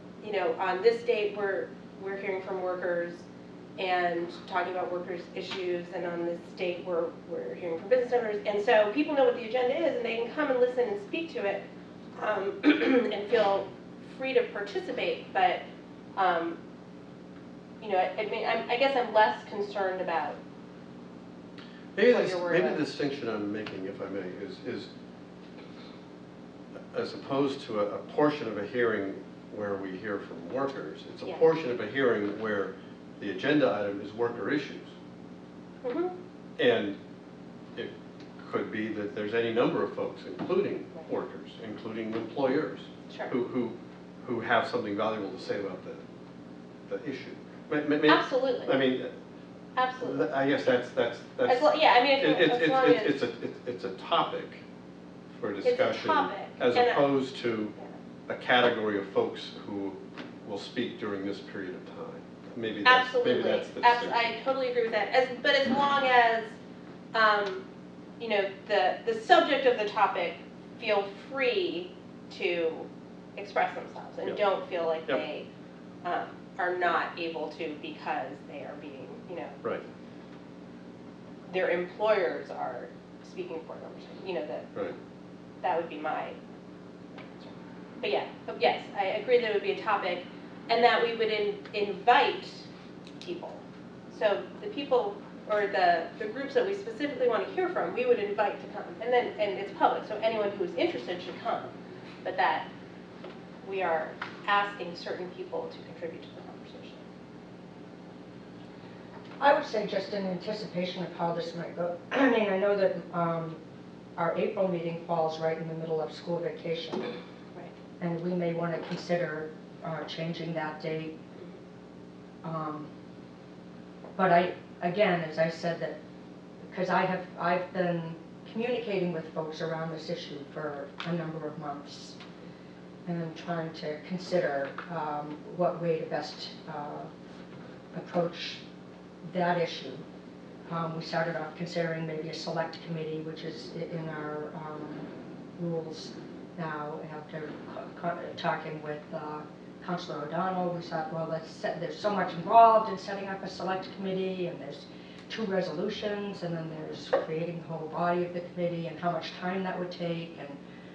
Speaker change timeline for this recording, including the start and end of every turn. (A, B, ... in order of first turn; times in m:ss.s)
0:00.2-0:03.2 A
0:03.8-0:15.6 A
0:16.1-0:16.6 A
0:17.8-0:20.4 A
0:21.9-0:24.9 B
0:22.0-0:22.8 A
0:26.9-0:34.9 B
0:35.8-0:36.1 A
0:36.6-0:37.0 B
0:37.7-0:46.0 B
0:46.9-0:49.1 B
0:48.1-0:48.7 A
0:49.8-0:50.3 A
0:50.0-0:54.6 B
0:51.4-0:53.2 A
0:55.4-0:57.7 B
0:55.6-0:57.0 A
0:58.3-1:04.3 B
1:02.8-1:06.6 A
1:07.1-1:07.6 A
1:08.2-1:15.5 A
1:16.0-1:19.6 A
1:21.5-1:24.7 A
1:25.6-1:26.4 A
1:27.2-1:32.7 A
1:33.2-1:42.7 A
1:43.6-1:47.0 A
1:49.4-1:53.6 C
1:54.2-1:57.1 C
1:58.0-2:01.2 C
2:02.4-2:02.9 C
2:04.1-2:06.0 C
2:06.7-2:12.2 C
2:13.0-2:17.1 C
2:17.9-2:18.6 C
2:19.2-2:20.0 C
2:20.7-2:40.6 C